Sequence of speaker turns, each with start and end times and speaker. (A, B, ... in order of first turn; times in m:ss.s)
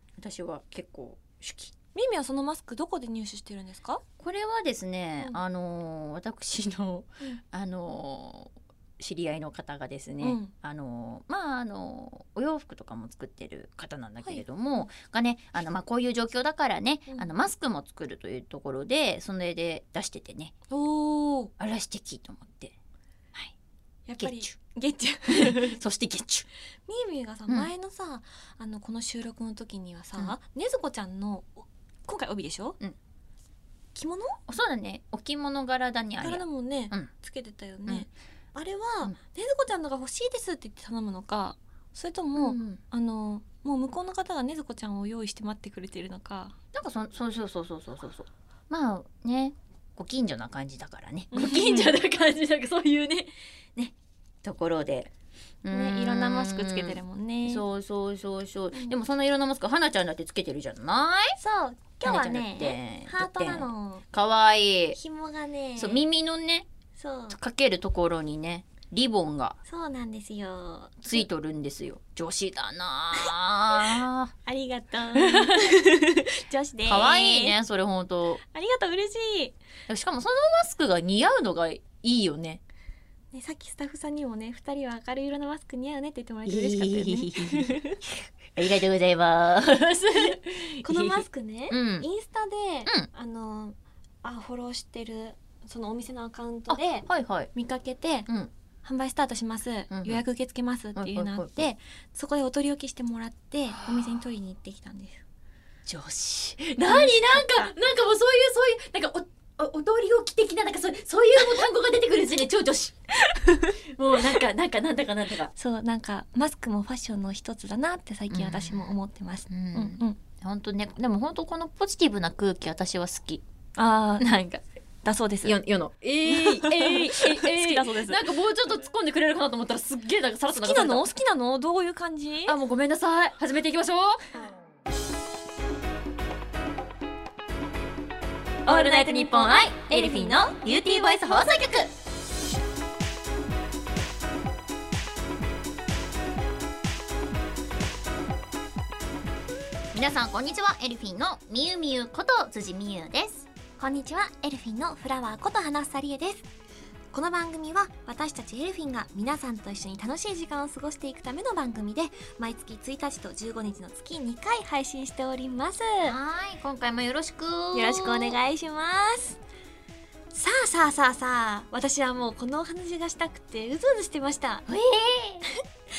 0:00.2-0:01.7 A
0:01.9-0:04.0 B
0:04.2-0:20.5 A
0:10.2-0:10.5 B
0:20.7-0:21.5 B
0:21.6-0:22.8 A
0:24.1-0:25.8 B
0:24.2-0:24.5 A
0:25.3-0:26.5 A
0:26.9-0:32.8 B
0:34.0-0:34.4 B
0:34.5-0:37.1 A
0:36.2-0:46.6 B
0:42.4-0:42.8 A
0:46.7-0:55.1 A
0:51.3-0:51.9 B
0:55.6-1:01.4 A
0:55.7-0:57.6 B
1:01.4-1:04.0 B
1:02.0-1:05.0 A
1:05.0-1:06.0 B
1:05.8-1:06.7 A
1:07.0-1:07.4 B
1:07.3-1:09.6 A
1:09.7-1:11.3 B
1:11.0-1:14.3 A
1:14.5-1:17.6 B
1:15.2-1:15.8 A
1:16.9-1:18.4 A
1:18.5-1:19.6 B
1:19.9-1:22.6 A
1:23.3-1:28.0 B
1:26.5-1:27.8 A
1:28.6-1:32.1 A
1:30.8-1:38.3 B
1:36.7-1:37.5 A
1:38.8-1:45.2 B
1:39.9-1:40.2 A
1:41.0-1:41.7 A
1:43.8-1:44.1 A
1:45.9-1:53.0 A
1:46.9-1:47.7 B
1:53.3-1:53.8 B
1:53.9-1:55.5 A
1:55.6-2:00.2 B
1:58.3-1:58.9 A
1:59.5-2:03.4 A
2:03.8-2:04.5 B
2:04.2-2:04.6 A
2:05.0-2:05.6 B
2:05.4-2:11.0 A
2:06.3-2:08.2 B
2:10.5-2:12.6 B
2:12.5-2:14.3 A
2:18.6-2:21.9 A
2:18.7-2:21.6 B
2:29.9-2:33.5 A
2:33.8-2:36.5 B
2:37.1-2:46.2 B
2:46.0-2:48.4 A
2:47.7-2:49.4 B
2:50.3-2:54.7 B
2:54.7-2:55.5 A